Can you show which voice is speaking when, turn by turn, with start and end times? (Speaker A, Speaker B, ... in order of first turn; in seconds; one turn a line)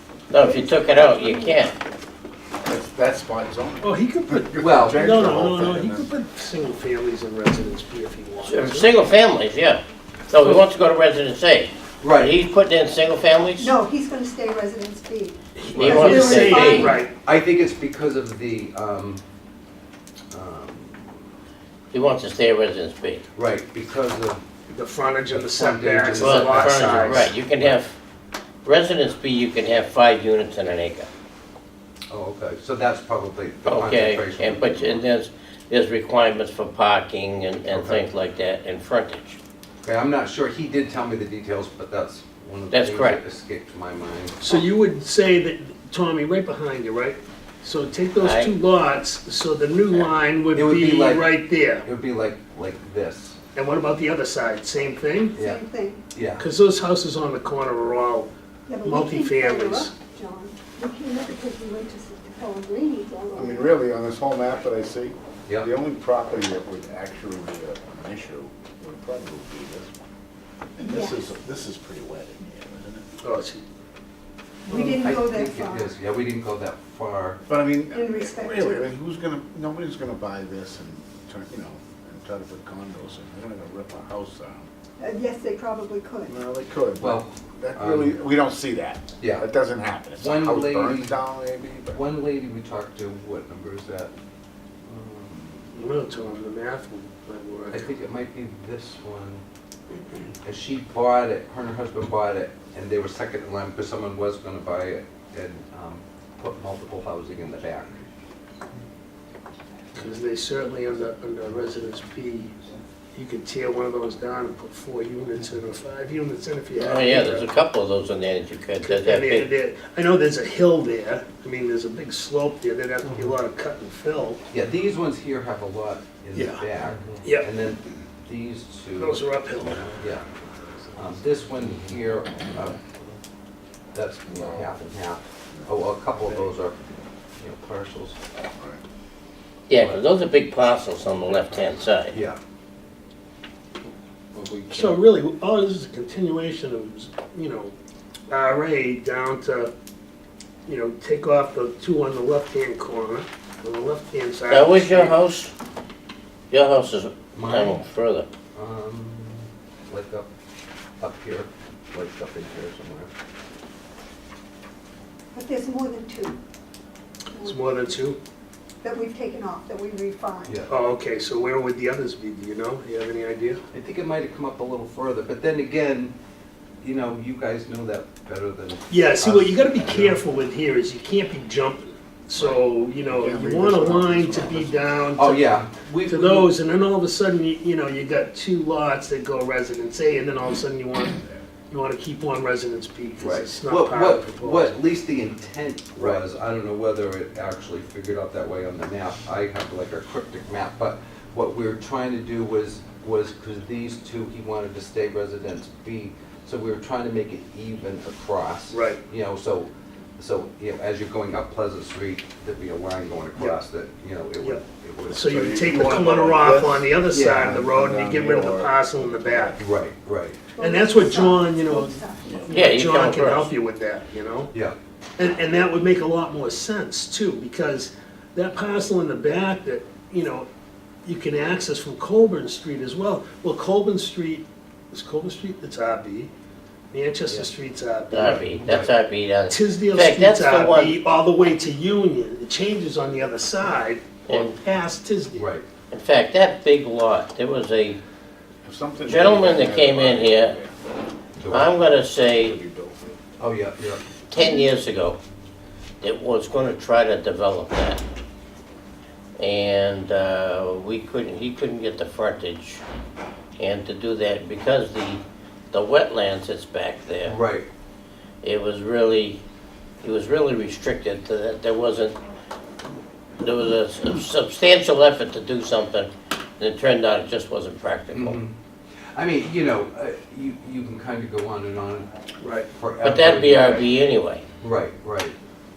Speaker A: 0.3-1.8
Speaker B: 0.4-1.6
Speaker C: 2.6-6.1
Speaker D: 3.8-8.9
Speaker E: 4.6-5.1
Speaker A: 8.4-13.7
Speaker E: 12.0-12.4
Speaker B: 13.6-17.1
Speaker D: 15.6-17.1
Speaker E: 15.7-19.2
Speaker A: 15.8-17.0
Speaker E: 20.3-21.1
Speaker A: 21.9-23.2
Speaker E: 23.4-24.4
Speaker D: 24.7-27.4
Speaker E: 25.3-27.8
Speaker A: 26.2-28.0
Speaker A: 28.6-31.1
Speaker E: 32.1-35.0
Speaker A: 33.6-39.4
Speaker E: 37.7-38.0
Speaker E: 39.8-44.4
Speaker A: 42.7-43.2
Speaker D: 44.4-51.9
Speaker A: 48.2-48.6
Speaker E: 50.5-53.4
Speaker D: 53.5-55.4
Speaker B: 55.3-56.0
Speaker E: 55.4-55.6
Speaker E: 56.1-56.5
Speaker D: 56.4-58.3
Speaker B: 58.7-63.8
Speaker D: 58.8-60.0
Speaker C: 63.3-70.1
Speaker C: 70.8-73.1
Speaker B: 70.8-71.3
Speaker D: 73.2-73.6
Speaker B: 74.7-75.9
Speaker E: 74.7-77.4
Speaker C: 77.5-84.7
Speaker B: 77.9-78.9
Speaker B: 85.0-86.3
Speaker C: 86.3-92.0
Speaker E: 87.0-88.2
Speaker E: 89.2-89.5
Speaker E: 90.2-91.2
Speaker E: 91.9-94.1
Speaker E: 94.8-95.8
Speaker D: 95.7-97.9
Speaker E: 97.7-99.4
Speaker E: 100.4-108.0
Speaker D: 109.9-112.5
Speaker D: 113.1-117.5
Speaker A: 116.8-119.5
Speaker D: 118.8-124.4
Speaker E: 123.1-123.3
Speaker E: 124.5-129.2
Speaker D: 126.3-126.7
Speaker D: 127.2-127.5
Speaker D: 129.0-129.9
Speaker E: 130.0-130.2
Speaker E: 131.0-132.8
Speaker E: 133.9-136.8
Speaker C: 134.3-134.7
Speaker C: 135.5-136.6
Speaker E: 137.4-138.2
Speaker C: 138.6-138.8
Speaker A: 139.7-142.2
Speaker E: 142.1-142.4
Speaker E: 144.3-145.0
Speaker D: 144.7-147.7
Speaker D: 148.3-149.7
Speaker D: 150.7-155.2
Speaker A: 154.5-155.5
Speaker A: 156.5-158.3
Speaker E: 157.3-157.8
Speaker E: 158.6-160.3
Speaker E: 161.0-163.1
Speaker B: 165.3-166.4
Speaker B: 167.3-168.0
Speaker D: 167.4-168.2
Speaker B: 168.8-170.6
Speaker D: 170.7-173.6
Speaker E: 173.7-176.1
Speaker E: 176.8-180.2
Speaker D: 178.9-194.8
Speaker C: 183.1-185.0
Speaker E: 185.2-186.5
Speaker E: 193.2-215.3
Speaker D: 196.0-196.2
Speaker D: 208.7-209.0
Speaker D: 213.3-213.6
Speaker D: 214.4-219.6
Speaker C: 215.2-219.6
Speaker E: 217.1-217.5
Speaker E: 219.6-220.4
Speaker B: 220.6-222.5
Speaker D: 220.6-224.5
Speaker A: 222.5-223.5
Speaker D: 225.2-230.5
Speaker D: 231.1-236.3
Speaker D: 236.9-238.7
Speaker A: 238.1-241.0
Speaker E: 238.6-238.9
Speaker D: 239.5-245.5
Speaker A: 244.3-244.6
Speaker E: 245.4-245.7
Speaker A: 245.9-248.0
Speaker C: 248.6-253.2
Speaker A: 249.1-250.6
Speaker E: 251.4-251.7
Speaker A: 251.5-252.6
Speaker E: 253.4-254.0
Speaker A: 254.3-255.2
Speaker B: 254.4-254.7
Speaker A: 256.0-258.0
Speaker A: 259.4-262.8
Speaker A: 263.6-267.4
Speaker E: 267.2-267.7
Speaker A: 268.4-269.4
Speaker A: 270.0-272.2
Speaker A: 273.4-278.4
Speaker E: 278.1-278.5
Speaker E: 279.1-282.1
Speaker D: 282.4-282.7
Speaker E: 282.8-283.8
Speaker A: 283.0-284.4
Speaker E: 284.6-285.4